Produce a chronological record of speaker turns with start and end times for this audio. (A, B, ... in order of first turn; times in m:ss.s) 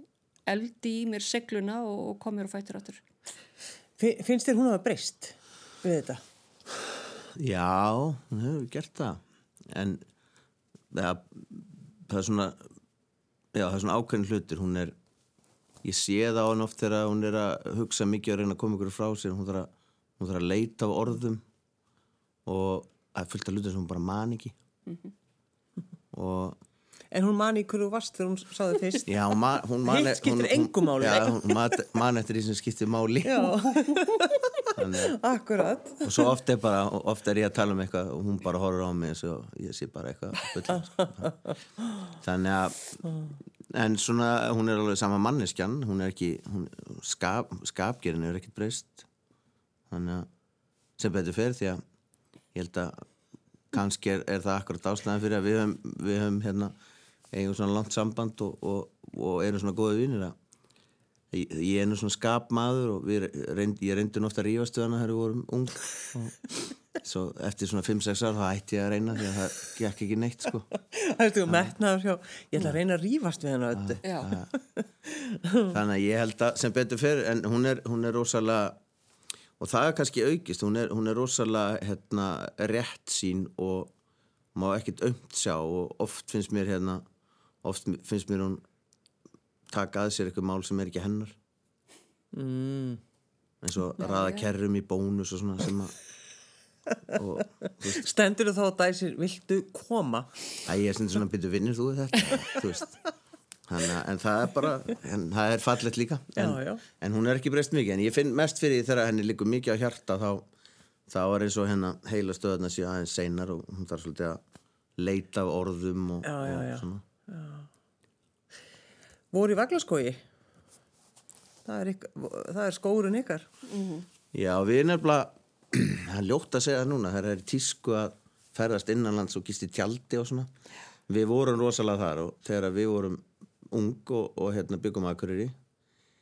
0:00.5-0:03.0 A
0:04.0-0:06.2 B
0:07.3-0:10.0 C
0:10.9-0:12.6 C
0:13.5-0:14.9 C
0:15.8-0:21.4 C
0:22.4-0:24.5 C
0:26.1-0:26.6 C
0:27.1-0:29.2 B
0:29.1-0:33.5 C
0:29.8-0:31.8 B
0:33.2-0:36.3 B
0:34.7-0:35.2 C
0:36.0-0:41.3 C
0:41.0-0:41.3 B
0:42.2-0:43.0 C
0:43.7-0:49.1 C
0:49.9-0:50.3 C
0:51.0-0:51.8 C
0:52.5-0:53.0 C
0:53.7-0:56.7 C
0:57.3-1:00.3 C
1:01.3-1:06.4 C
1:07.0-1:10.7 C
1:10.7-1:15.7 B
1:11.5-1:11.7 C
1:13.8-1:14.5 C
1:14.0-1:14.3 A
1:15.7-1:18.8 C
1:19.6-1:23.9 C
1:24.5-1:27.0 C
1:27.6-1:28.6 C
1:29.7-1:31.3 C
1:32.3-1:33.0 B
1:33.6-1:35.9 C
1:34.0-1:34.5 A
1:37.1-1:38.0 C
1:37.8-1:40.4 B
1:40.7-1:43.0 C
1:43.7-1:50.5 C
1:46.3-1:46.8 B
1:51.1-1:54.4 C
1:55.0-1:57.0 C
1:56.2-1:57.7 B
1:59.3-2:00.2 B
2:01.6-2:03.5 B
2:03.7-2:04.0 A
2:04.3-2:10.5 C
2:11.1-2:15.5 C